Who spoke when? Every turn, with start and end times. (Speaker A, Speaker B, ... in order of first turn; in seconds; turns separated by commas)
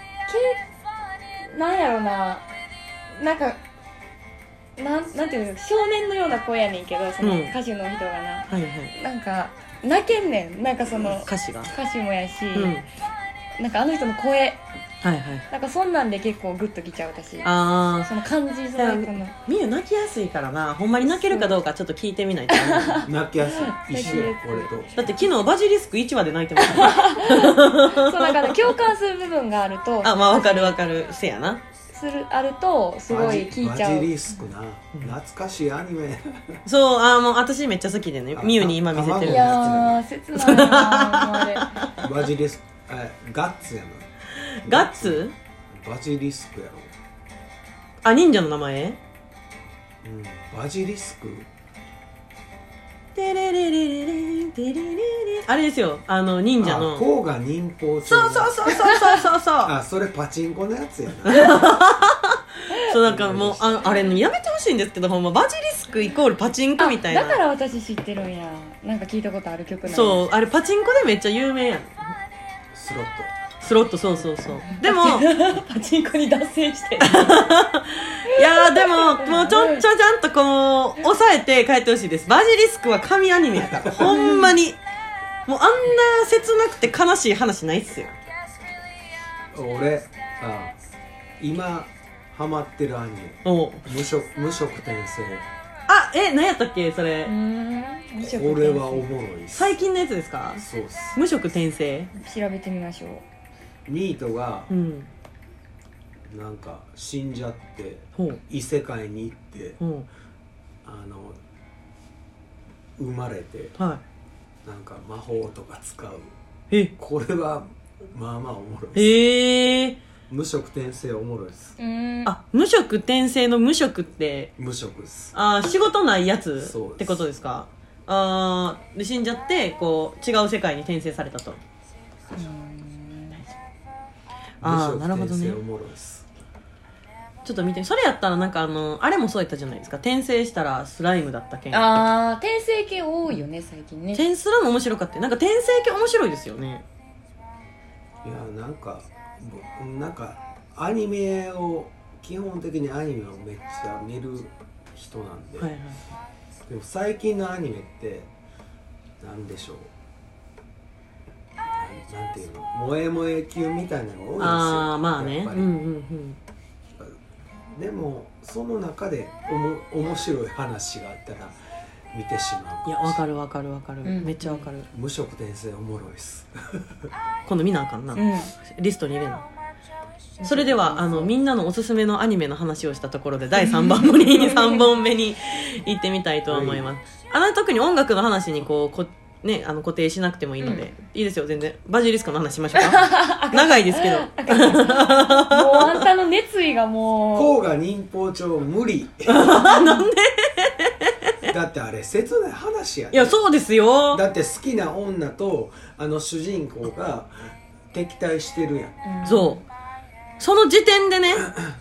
Speaker A: 0.3-0.6, Speaker A: 1.5-2.5, Speaker A: 3.2-3.6, Speaker A: 4.8-12.8, Speaker B: 7.2-7.5, Speaker B: 8.5-8.9, Speaker B: 11.2-11.7, Speaker B: 12.6-12.9, Speaker A: 13.6-14.6, Speaker B: 15.0-15.5, Speaker A: 15.5-19.4, Speaker B: 17.4-18.1, Speaker B: 18.8-23.1, Speaker A: 21.0-21.6, Speaker A: 22.5-24.7, Speaker C: 23.0-25.1, Speaker B: 24.0-24.3, Speaker B: 24.9-28.7, Speaker A: 26.6-30.8, Speaker B: 30.0-31.6, Speaker A: 31.9-34.2, Speaker C: 33.1-36.6, Speaker B: 36.7-41.9, Speaker C: 38.3-40.0, Speaker A: 39.2-41.7, Speaker C: 42.0-44.1, Speaker B: 44.4-45.4, Speaker C: 44.6-46.9, Speaker B: 48.0-49.0, Speaker C: 50.0-51.5, Speaker B: 53.1-57.1, Speaker C: 56.6-58.8, Speaker B: 58.0-59.7, Speaker A: 58.7-59.2, Speaker C: 59.6-61.6, Speaker B: 61.2-67.4, Speaker C: 63.0-64.0, Speaker A: 66.8-70.3, Speaker B: 69.9-71.9, Speaker C: 72.7-73.4, Speaker B: 73.6-75.3, Speaker A: 74.7-77.6, Speaker B: 77.0-84.8, Speaker A: 78.3-79.8, Speaker C: 83.8-84.5, Speaker B: 85.5-88.1, Speaker C: 89.5-90.8, Speaker C: 91.4-95.5, Speaker B: 93.5-93.8, Speaker B: 95.9-97.3, Speaker A: 97.2-99.1, Speaker C: 98.2-99.8, Speaker B: 99.5-102.1, Speaker C: 100.6-101.2, Speaker A: 102.1-103.2, Speaker C: 103.9-104.7, Speaker B: 104.7-105.1, Speaker C: 106.3-109.8, Speaker B: 109.8-110.1, Speaker C: 110.8-111.4, Speaker C: 113.0-113.8, Speaker C: 114.7-116.3, Speaker C: 117.0-119.2, Speaker B: 119.0-120.0, Speaker C: 120.3-121.8, Speaker A: 121.8-122.3, Speaker B: 122.2-124.5, Speaker C: 124.6-125.3, Speaker B: 125.3-131.6, Speaker C: 126.6-127.3, Speaker A: 132.3-133.4, Speaker B: 134.6-135.6, Speaker C: 134.6-136.3, Speaker B: 137.4-141.9, Speaker A: 141.7-144.2, Speaker B: 144.1-146.8, Speaker C: 148.2-155.7, Speaker B: 155.6-156.0, Speaker C: 156.7-158.3, Speaker C: 159.2-159.9, Speaker C: 161.7-165.7, Speaker B: 164.4-166.4, Speaker C: 167.7-171.6, Speaker C: 172.1-173.2, Speaker B: 172.9-174.9, Speaker A: 174.1-174.7, Speaker C: 174.9-176.9, Speaker B: 177.5-179.5, Speaker A: 178.2-178.5, Speaker A: 180.4-181.3, Speaker B: 180.4-196.1, Speaker A: 183.6-184.9, Speaker C: 186.5-186.9, Speaker A: 190.6-190.9, Speaker A: 192.8-197.5, Speaker C: 197.3-199.6, Speaker B: 199.3-201.1, Speaker C: 201.5-203.4, Speaker B: 203.1-204.2, Speaker C: 204.1-207.4, Speaker C: 207.9-209.1, Speaker A: 209.1-209.6, Speaker B: 209.2-209.6, Speaker B: 210.4-211.5